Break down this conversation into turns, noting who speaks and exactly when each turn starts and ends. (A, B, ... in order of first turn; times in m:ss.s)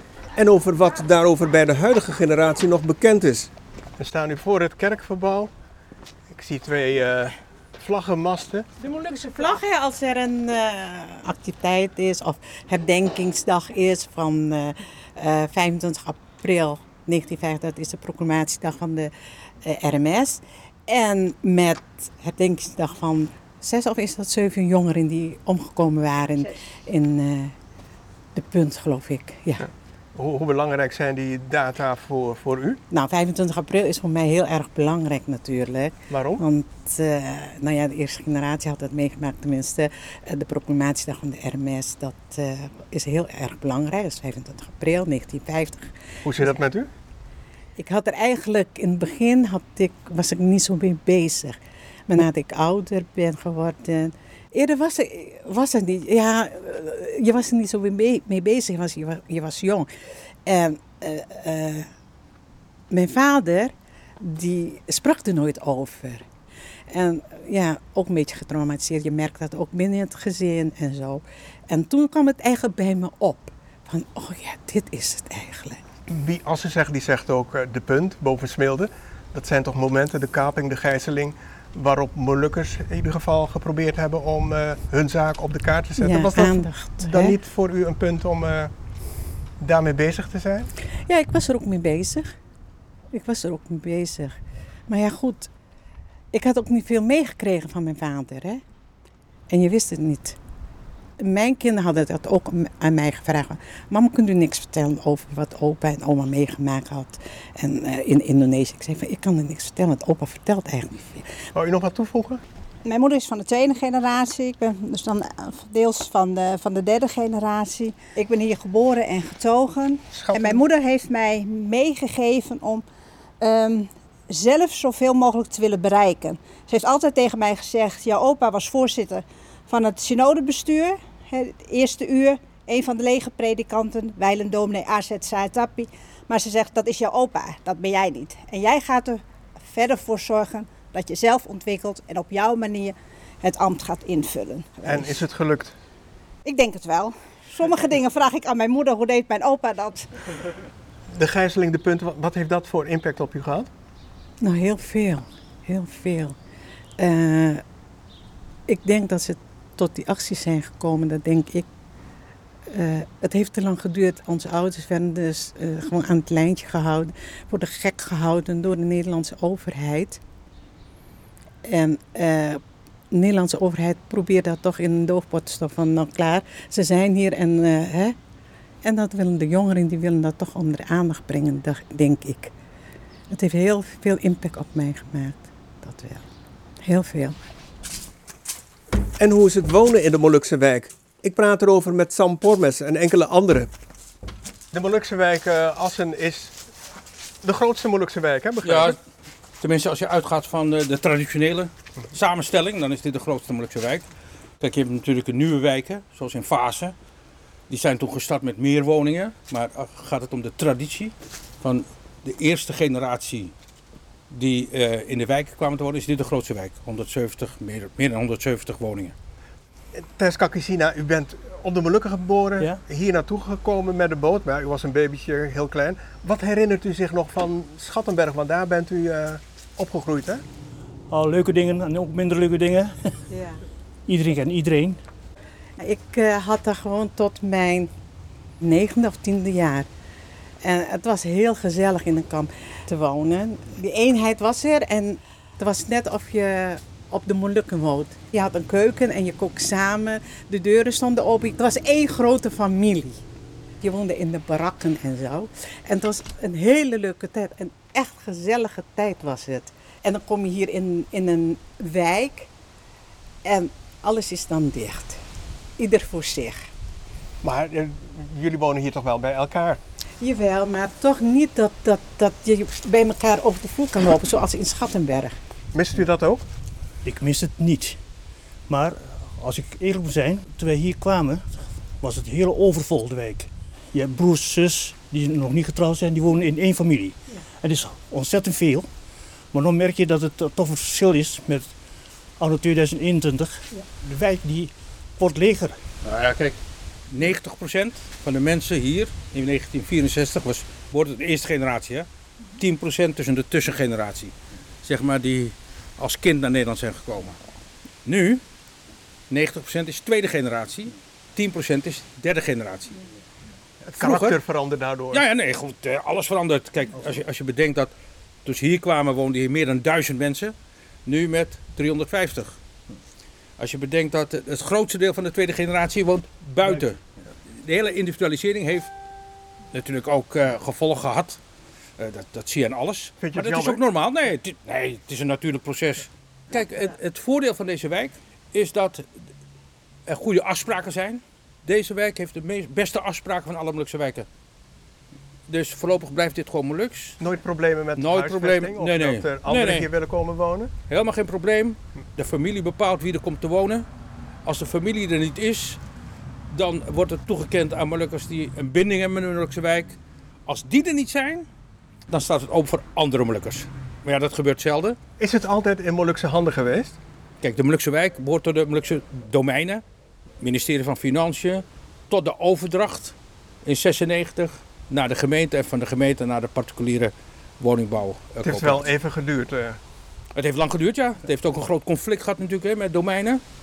0:00.4-0:05.5 A
0:06.3-0:08.7 A
0:08.8-0:27.5 B
0:28.3-0:29.7 B
0:30.2-0:32.8 A
0:32.9-0:45.9 B
0:36.1-0:36.4 A
0:46.2-0:46.9 A
0:47.8-0:51.6 B
0:52.1-0:59.9 B
1:00.5-1:01.9 B
1:02.9-1:06.2 B
1:06.9-1:15.8 B
1:16.1-1:28.7 A
1:26.0-1:27.4 B
1:29.6-1:30.7 A
1:31.1-1:32.3 B
1:33.1-1:34.3 B
1:34.9-1:35.5 B
1:36.3-1:38.6 B
1:39.5-1:40.4 B
1:41.2-1:51.3 B
1:51.5-1:52.4 A
1:52.8-2:02.8 C
2:00.1-2:00.6 A
2:03.4-2:25.1 C
2:24.9-2:25.7 A
2:26.4-2:30.1 C
2:31.1-2:33.7 A
2:34.4-2:36.4 B
2:37.0-2:37.6 B
2:38.7-2:41.7 B
2:42.7-2:50.2 B
2:51.6-2:52.6 B
2:53.1-2:58.2 B
2:58.8-3:02.5 B
3:03.3-3:06.2 B
3:06.8-3:07.4 B
3:09.2-3:13.7 A
3:14.7-3:16.6 A
3:17.4-3:19.0 A
3:18.6-3:19.0 D
3:19.6-3:24.1 D
3:24.6-3:27.0 D
3:27.7-3:33.5 D
3:34.3-3:39.1 D
3:40.0-3:50.4 A
3:51.1-3:52.9 E
3:53.3-3:53.6 B
3:54.1-3:55.0 E
3:55.8-3:57.9 B
3:58.6-3:59.9 B
4:00.6-4:13.2 B
4:13.8-4:22.5 B
4:23.4-4:25.2 B
4:25.8-4:26.6 B
4:27.4-4:29.8 A
4:30.2-4:35.4 B
4:35.7-4:36.4 A
4:37.0-4:38.0 E
4:38.7-4:41.5 E
4:42.0-4:48.9 E
4:49.5-4:51.7 E
4:52.4-4:55.8 E
4:56.0-4:56.6 D
4:57.1-5:02.1 D
5:02.6-5:07.4 D
5:08.0-5:08.4 D
5:09.3-5:13.0 D
5:13.8-5:15.2 A
5:14.0-5:14.4 D
5:15.1-5:17.9 D
5:18.4-5:20.5 D
5:21.1-5:22.6 D
5:23.6-5:27.0 D
5:27.6-5:28.9 D
5:29.7-5:31.4 D
5:32.0-5:39.1 D
5:33.2-5:33.8 A
5:40.1-5:44.3 D
5:45.5-5:47.2 D
5:47.2-5:50.7 A
5:48.0-5:49.9 D
5:50.9-5:53.9 D
5:54.4-5:55.8 D
5:56.5-6:01.5 D
6:02.1-6:05.0 D
6:05.2-6:07.0 A
6:07.4-6:09.8 D
6:10.4-6:18.9 D
6:18.4-6:19.8 A
6:20.4-6:23.4 D